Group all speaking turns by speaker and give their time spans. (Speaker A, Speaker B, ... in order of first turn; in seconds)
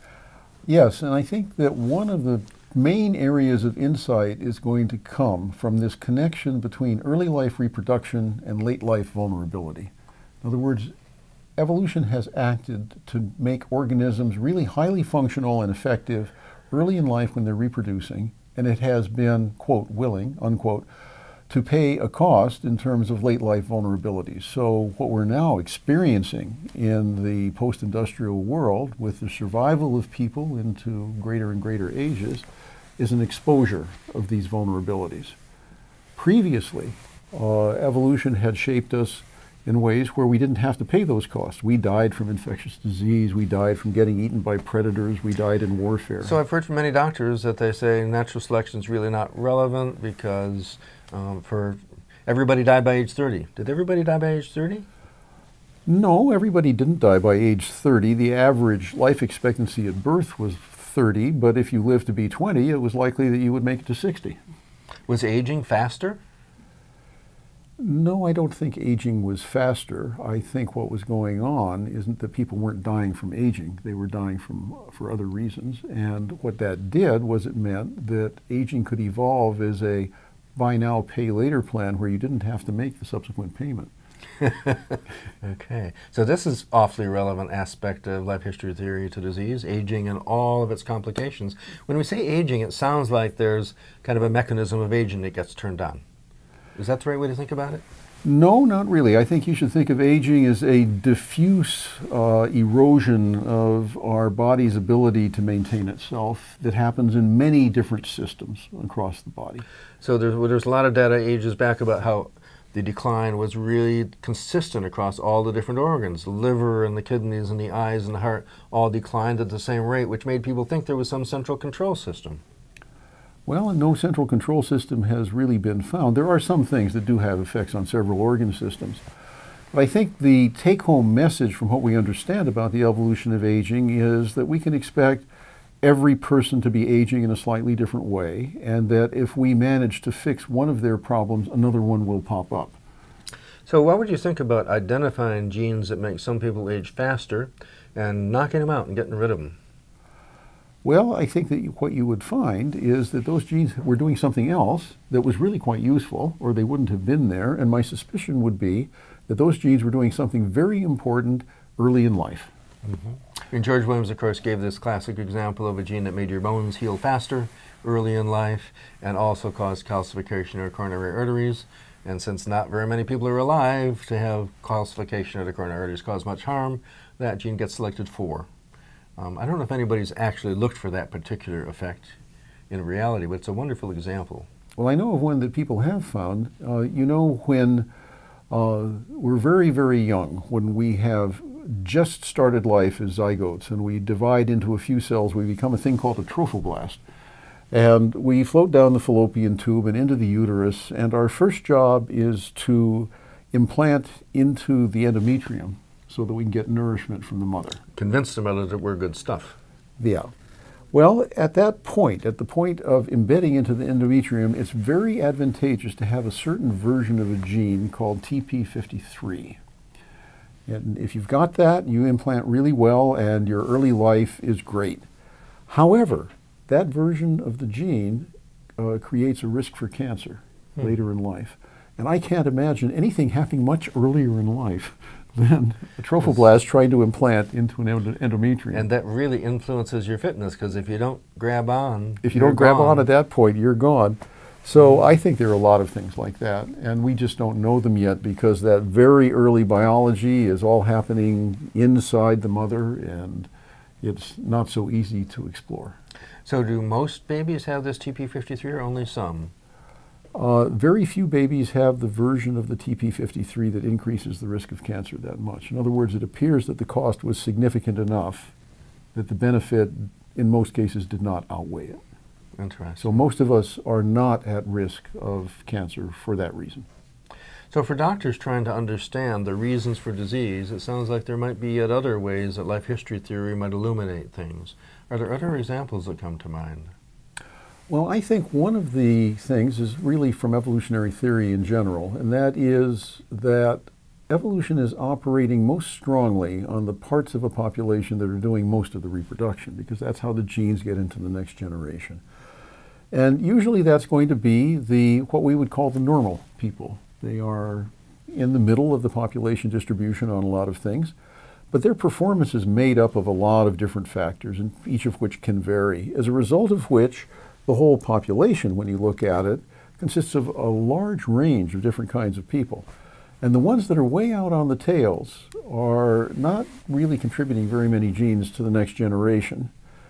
Speaker A: 0.7-9.9, 10.4-10.9, 11.6-20.9, 21.5-32.5, 33.0-35.4, 36.1-46.3, 55.9-64.4, 67.8-83.9, 98.2-109.6, 123.5-129.0, 129.7-135.3, 135.8-142.8, 150.8-162.5, 184.8-187.9, 188.5-197.0, 197.7-207.8, 210.0-210.3, 210.9-219.6, 220.7-225.0, 225.7-238.8, 242.2-253.5, 254.0-255.9, 260.3-268.5, 269.1-272.0, 273.0-276.9, 287.9-302.2, 303.1-311.1, 311.7-322.9, 323.4-329.7
Speaker B: 46.2-54.8, 65.1-66.2, 84.4-96.0, 96.8-97.8, 110.0-122.4, 143.7-149.6, 162.8-178.5, 179.2-182.1, 182.7-184.5, 207.9-209.6, 238.7-243.1, 256.4-259.5, 272.6-273.2, 277.7-286.9